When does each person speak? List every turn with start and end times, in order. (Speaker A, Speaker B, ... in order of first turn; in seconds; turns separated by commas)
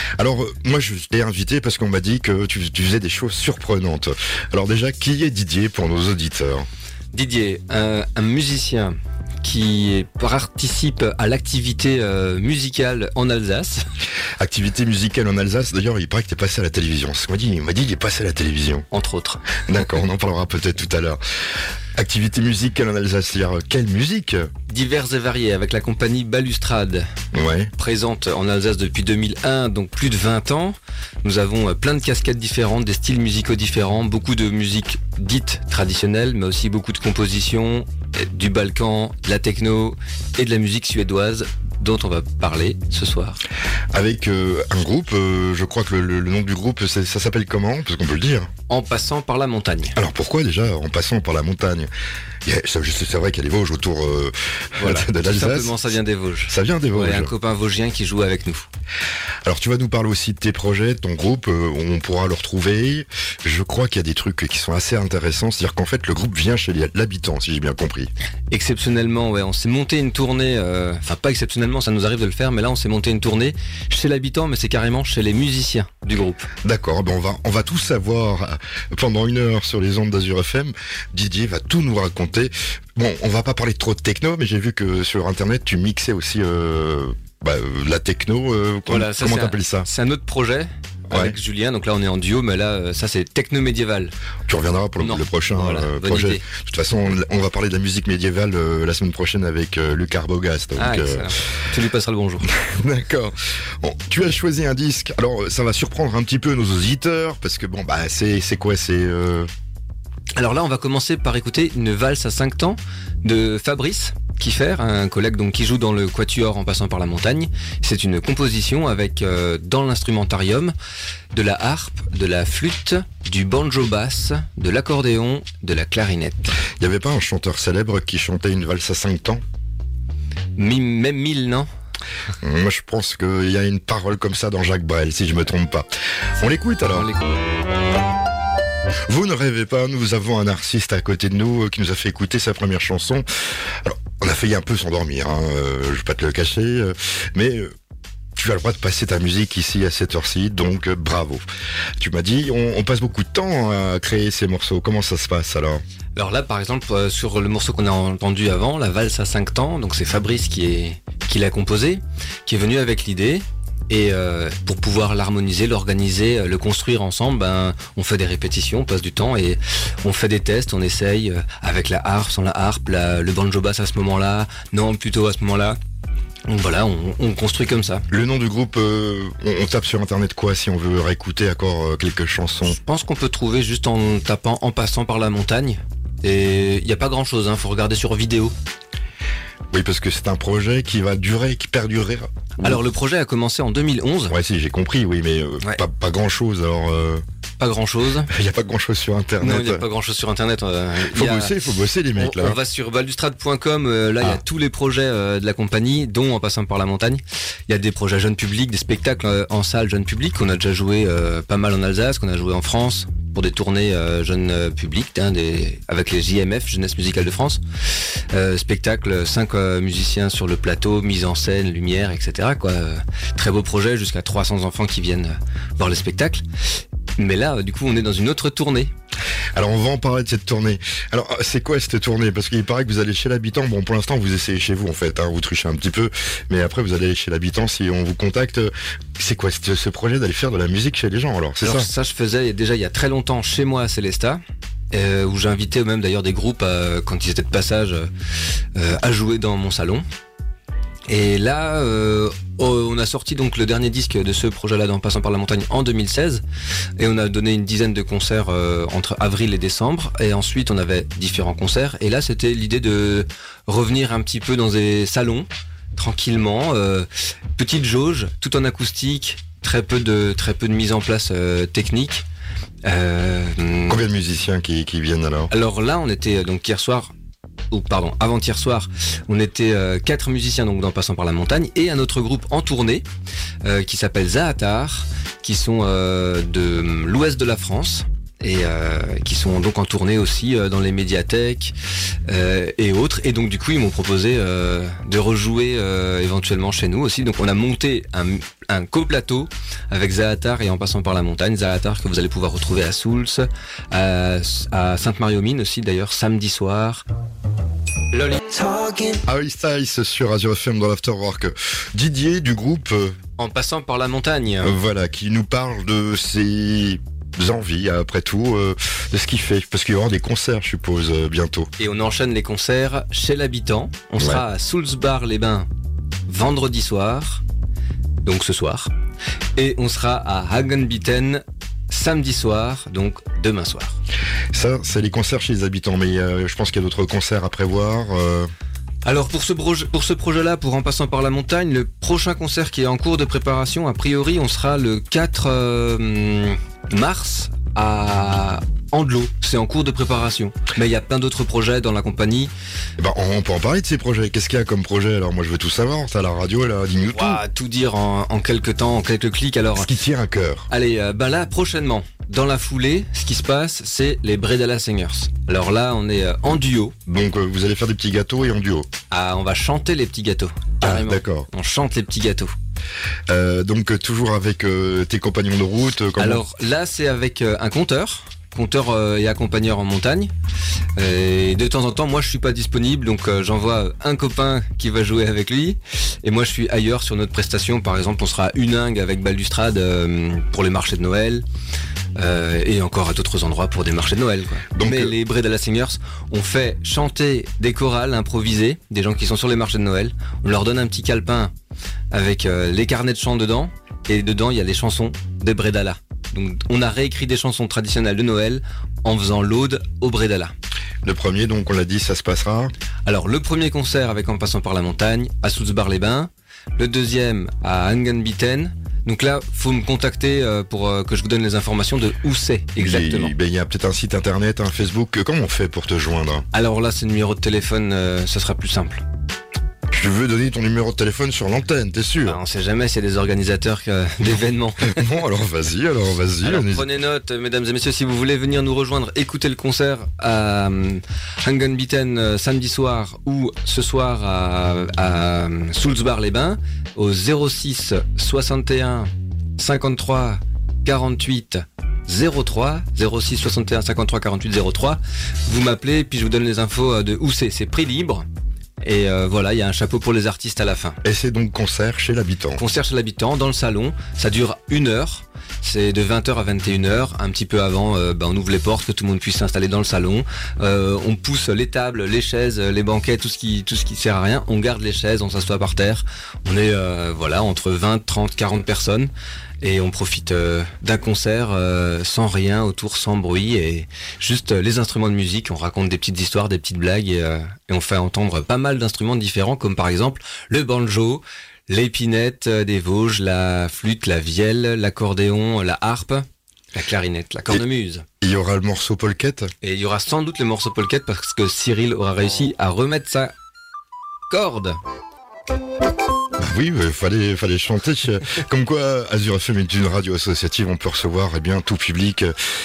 Speaker A: 0.2-6.7, Speaker B: 7.1-13.8, Speaker A: 14.4-18.9, Speaker B: 18.9-19.4, Speaker A: 19.6-21.2, Speaker A: 21.9-24.5, Speaker B: 24.7-27.0, Speaker A: 27.3-27.7, Speaker B: 27.8-43.4, Speaker A: 43.9-48.5, Speaker B: 48.7-50.0, Speaker A: 49.9-51.9, Speaker A: 52.4-55.9, Speaker B: 54.8-58.7, Speaker A: 56.5-57.3, Speaker A: 59.5-68.1, Speaker B: 68.5-76.5, Speaker A: 76.6-89.9, Speaker B: 88.9-94.1, Speaker A: 91.1-91.3, Speaker A: 94.5-101.3, Speaker B: 95.0-96.4, Speaker B: 100.8-102.5, Speaker A: 102.5-109.5, Speaker B: 110.3-120.7, Speaker B: 121.3-126.5, Speaker A: 126.8-129.4, Speaker B: 130.6-131.7, Speaker A: 132.4-137.1, Speaker B: 136.9-137.4, Speaker A: 139.1-143.2, Speaker A: 143.8-147.7, Speaker A: 148.3-151.4, Speaker A: 152.0-155.8, Speaker B: 156.2-175.8, Speaker B: 176.5-178.1, Speaker A: 178.1-182.8, Speaker B: 182.7-188.5, Speaker A: 189.7-192.8, Speaker B: 192.6-194.3, Speaker A: 194.3-197.2, Speaker B: 197.6-198.3, Speaker A: 198.3-199.8, Speaker B: 199.4-201.6, Speaker A: 201.1-202.6, Speaker B: 202.1-226.4, Speaker B: 227.2-228.9, Speaker A: 229.5-241.9, Speaker B: 241.6-244.4, Speaker B: 244.9-248.1, Speaker B: 248.7-250.0, Speaker B: 251.1-256.4, Speaker B: 257.0-272.2, Speaker B: 272.8-274.0, Speaker A: 273.9-275.5, Speaker B: 275.5-277.1, Speaker B: 277.7-283.0, Speaker B: 283.6-291.7, Speaker B: 292.3-307.0, Speaker B: 308.1-309.2, Speaker A: 309.2-313.2, Speaker B: 313.4-314.8, Speaker A: 314.6-321.7, Speaker B: 321.8-325.7, Speaker B: 326.3-327.4, Speaker B: 328.2-328.9, Speaker B: 329.6-334.0, Speaker A: 334.5-338.5, Speaker B: 339.0-352.5, Speaker A: 353.0-357.4, Speaker B: 357.1-359.9, Speaker A: 359.8-360.7, Speaker B: 360.7-366.9, Speaker A: 367.1-368.9, Speaker B: 369.1-372.5, Speaker A: 370.8-371.5, Speaker A: 373.3-376.4, Speaker B: 376.2-380.3, Speaker B: 381.0-391.4, Speaker B: 392.2-401.5, Speaker A: 394.7-395.1, Speaker B: 402.1-410.5, Speaker A: 411.0-412.7, Speaker B: 413.1-423.3, Speaker A: 422.8-426.4, Speaker B: 426.5-429.0, Speaker A: 429.9-432.4, Speaker B: 432.2-435.1, Speaker A: 434.8-436.8, Speaker B: 436.4-458.2, Speaker B: 458.8-461.0, Speaker A: 461.0-462.6, Speaker B: 462.6-498.0, Speaker A: 498.2-499.5, Speaker B: 499.6-503.3, Speaker B: 504.3-504.8, Speaker A: 506.4-512.3